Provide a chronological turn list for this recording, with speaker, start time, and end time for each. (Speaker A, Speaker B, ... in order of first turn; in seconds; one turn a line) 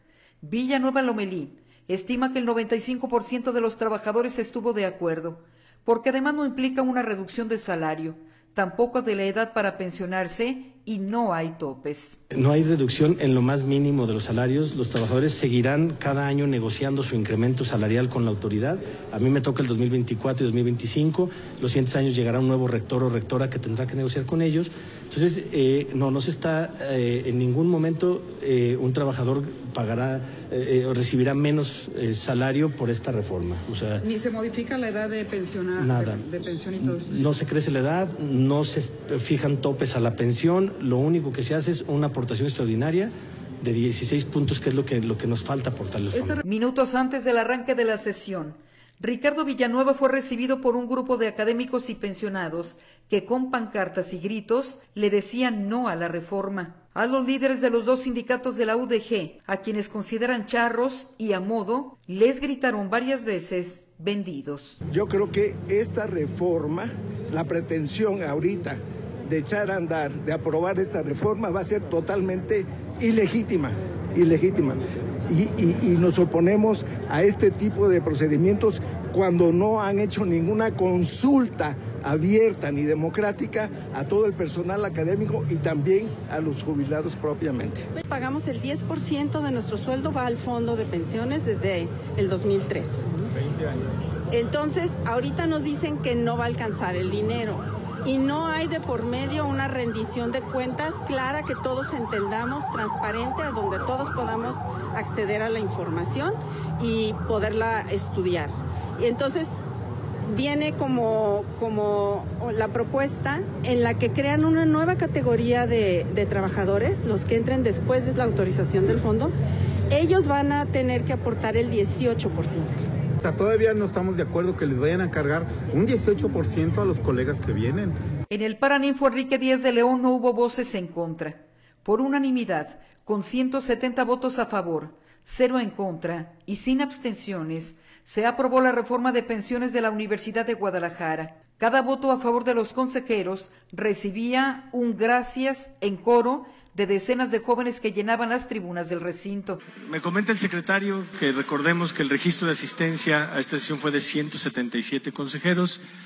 Speaker A: 0.4-12.2
Speaker B: 12.3-34.0
Speaker A: 34.0-37.1
Speaker B: 35.8-36.3
Speaker B: 36.8-46.4
Speaker A: 46.1-64.8
Speaker C: 64.9-87.9
Speaker D: 88.0-93.1
Speaker D: 94.3-109.5
Speaker D: 110.3-119.3
Speaker D: 119.9-122.8
Speaker E: 123.2-127.9
Speaker A: 128.3-149.6
Speaker F: 149.8-155.8